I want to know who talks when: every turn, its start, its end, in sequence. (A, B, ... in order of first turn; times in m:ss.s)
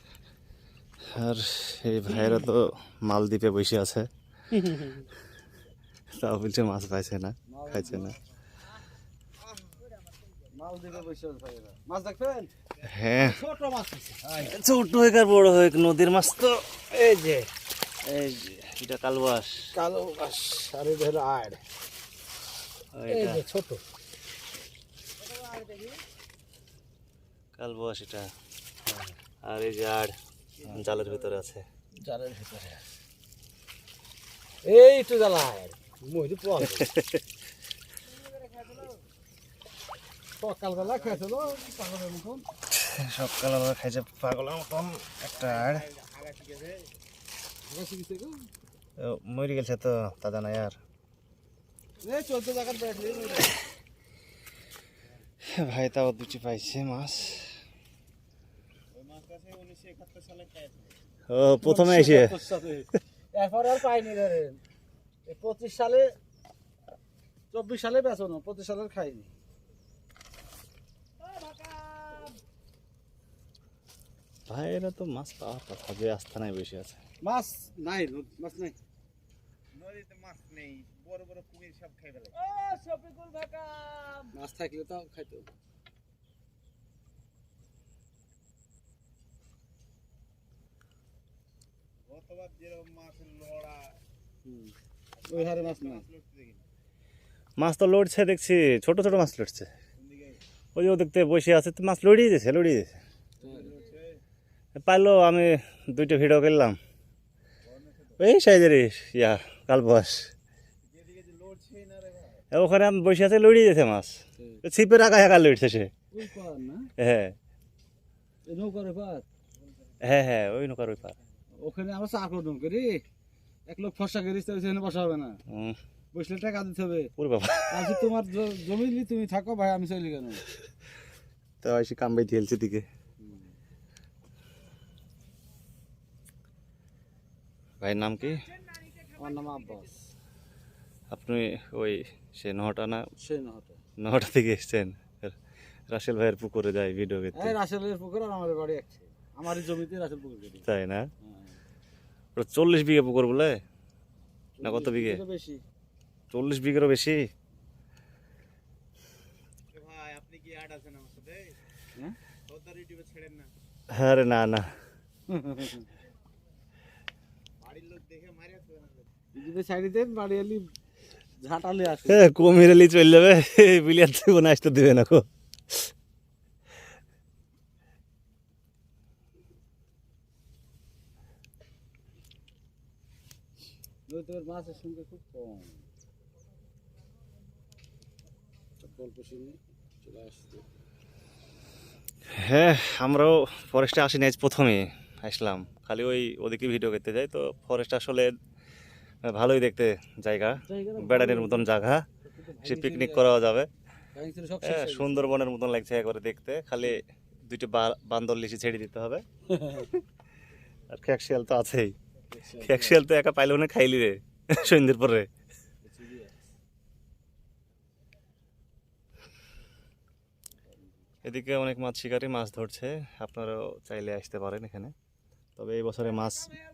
0:01.1-0:04.1 A
0:02.1-0:02.5 B
0:04.5-0:05.0 B
0:06.2-0:08.1 A
0:07.5-0:08.1 B
0:10.5-0:12.5 B
0:12.8-0:13.4 A
0:13.2-0:14.5 B
0:14.4-0:16.8 A
0:16.9-0:17.5 B
0:18.0-0:19.6 A
0:19.7-0:21.6 B
0:22.9-0:23.4 A
0:23.1-0:23.8 B
0:25.2-0:26.0 C
0:27.6-0:28.3 A
0:28.9-0:29.1 B
0:29.4-0:31.6 A
0:30.7-0:31.3 C
0:32.0-0:32.8 B
0:34.6-0:36.9 B
0:36.8-0:37.2 A
0:38.2-0:39.0 C
0:40.4-0:42.4 B
0:40.9-0:41.3 C
0:42.7-0:45.9 A
0:45.3-0:46.9 C
0:47.6-0:48.5 B
0:49.0-0:50.8 A
0:52.0-0:53.5 B
0:55.4-0:57.5 A
0:58.9-1:01.0 C
1:01.3-1:02.4 A
1:01.6-1:04.6 B
1:05.2-1:06.1 B
1:07.5-1:09.3 B
1:11.3-1:12.3 B
1:14.5-1:17.0 A
1:17.2-1:18.8 B
1:19.7-1:22.4 C
1:22.4-1:25.5 B
1:32.1-1:34.0 C
1:34.4-1:34.7 B
1:35.2-1:36.6 C
1:35.3-1:36.0 B
1:37.6-1:39.7 A
1:40.0-1:40.4 C
1:40.7-1:43.0 A
1:43.4-1:43.8 B
1:43.4-1:44.2 C
1:44.8-1:46.8 A
1:47.7-1:48.2 C
1:48.2-1:50.3 A
1:50.9-1:52.4 C
1:52.5-1:55.9 A
1:54.4-1:54.6 B
1:56.1-1:56.9 B
1:57.0-1:57.3 A
1:58.4-1:59.2 B
2:00.0-2:01.2 A
2:01.6-2:03.0 B
2:03.7-2:05.4 B
2:05.5-2:05.8 A
2:06.1-2:07.1 B
2:07.2-2:07.9 A
2:07.7-2:10.4 B
2:11.6-2:12.8 A
2:13.2-2:13.5 B
2:17.8-2:18.5 A
2:19.1-2:20.0 B
2:21.1-2:23.1 A
2:23.2-2:23.8 B
2:24.0-2:25.4 A
2:25.9-2:27.5 A
2:27.3-2:30.6 B
2:30.7-2:31.1 A
2:31.2-2:31.6 B
2:32.4-2:33.6 A
2:34.6-2:35.6 B
2:34.6-2:35.2 A
2:36.3-2:37.2 A
2:39.7-2:41.6 C
2:42.5-2:43.5 C
2:43.9-2:44.7 A
2:45.3-2:45.8 B
2:47.6-2:49.1 C
2:49.3-2:50.7 B
2:51.4-2:52.3 B
2:52.1-2:55.9 A
3:04.1-3:05.8 B
3:08.8-3:10.6 B
3:12.3-3:18.3 A
3:19.2-3:22.0 A
3:20.6-3:21.7 B
3:22.2-3:23.4 B
3:22.6-3:23.7 A
3:24.1-3:25.4 B
3:24.6-3:29.2 A
3:29.5-3:30.0 B
3:30.9-3:31.9 A
3:32.3-3:33.0 B
3:32.6-3:35.3 A
3:35.8-3:36.3 B
3:41.2-3:44.9 A
3:45.6-3:46.6 A